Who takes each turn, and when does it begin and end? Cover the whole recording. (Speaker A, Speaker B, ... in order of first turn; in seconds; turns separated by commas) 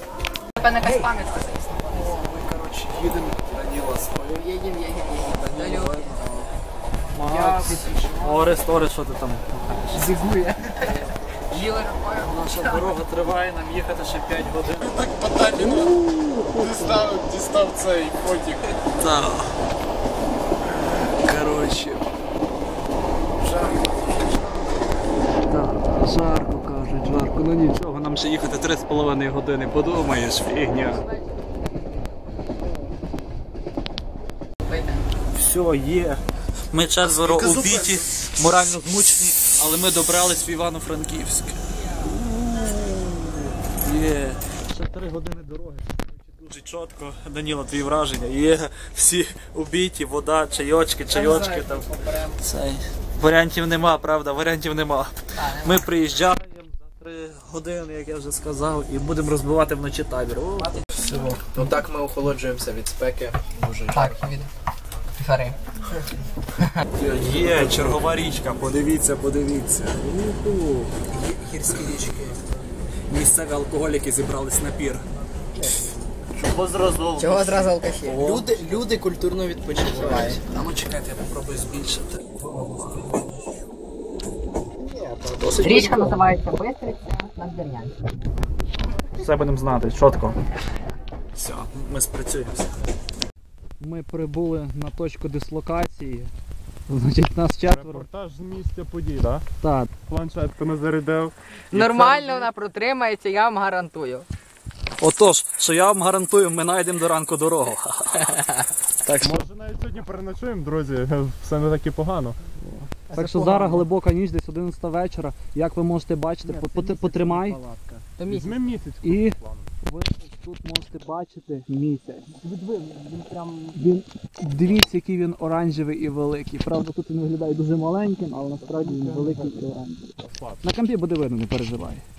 Speaker A: 0.6-2.2, Speaker B: 1.9-4.4, Speaker A: 4.3-6.2, Speaker B: 5.5-6.5, Speaker B: 7.1-9.5, Speaker C: 7.2-8.6, Speaker C: 9.9-11.0, Speaker A: 11.5-13.0, Speaker B: 12.2-15.0, Speaker D: 14.8-18.8, Speaker B: 15.6-17.1, Speaker B: 18.9-19.6, Speaker B: 20.9-22.1, Speaker B: 25.5-31.0, Speaker A: 34.7-35.0, Speaker B: 35.3-36.2, Speaker B: 36.7-60.8, Speaker D: 37.2-38.0, Speaker C: 51.1-52.4, Speaker A: 55.3-55.9, Speaker C: 60.8-64.3, Speaker A: 63.9-64.5, Speaker A: 65.1-65.6, Speaker B: 67.0-72.3, Speaker C: 67.0-68.0, Speaker C: 71.6-72.3, Speaker B: 73.1-75.0, Speaker B: 76.3-78.6, Speaker A: 77.2-78.2, Speaker C: 78.1-80.4, Speaker B: 79.9-83.3, Speaker B: 85.2-86.2, Speaker A: 85.6-87.9, Speaker B: 89.2-90.4, Speaker B: 91.3-92.8, Speaker B: 93.8-96.3, Speaker B: 96.9-98.1, Speaker D: 97.7-99.4, Speaker B: 99.6-99.9, Speaker D: 100.1-101.3, Speaker A: 101.7-104.3, Speaker B: 101.7-102.4, Speaker B: 105.0-108.4, Speaker B: 109.0-109.4, Speaker D: 109.2-112.4, Speaker B: 112.6-117.6, Speaker C: 113.1-113.8, Speaker A: 113.2-113.8, Speaker C: 116.4-118.1, Speaker A: 118.2-118.7, Speaker D: 118.3-119.7, Speaker B: 119.0-122.7, Speaker C: 122.6-123.8, Speaker B: 123.7-132.0, Speaker C: 128.9-129.2, Speaker D: 130.2-130.6